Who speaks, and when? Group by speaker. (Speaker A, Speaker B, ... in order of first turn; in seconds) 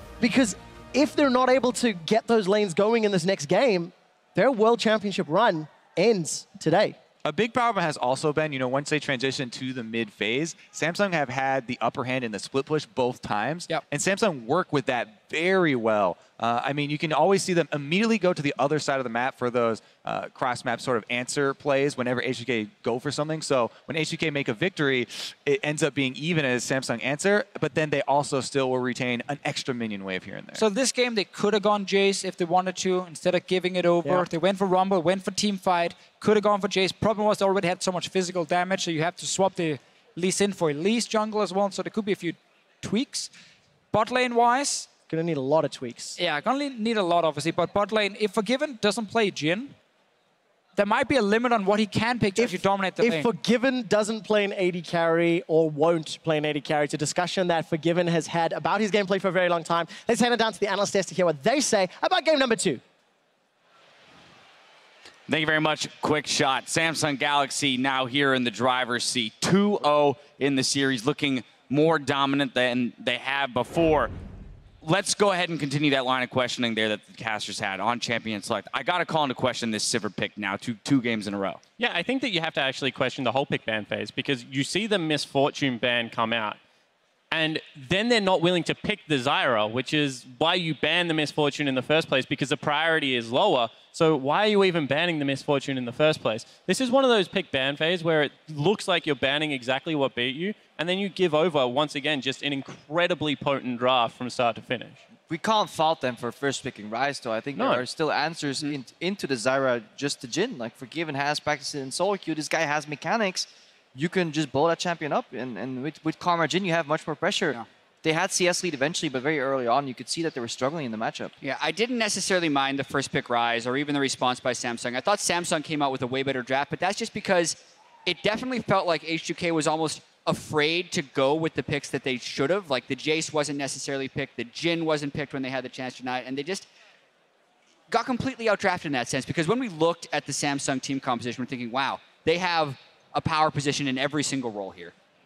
Speaker A: 0.2-7.0, 45.1-46.2, 52.4-62.8
Speaker B: 7.2-30.6
Speaker C: 30.6-43.3, 43.9-44.9, 46.2-49.7, 50.8-53.3
Speaker D: 65.3-74.1, 74.8-81.6
Speaker E: 81.8-86.6, 87.3-105.0, 107.5-107.8
Speaker F: 105.3-121.3
Speaker G: 121.4-136.7, 137.9-144.9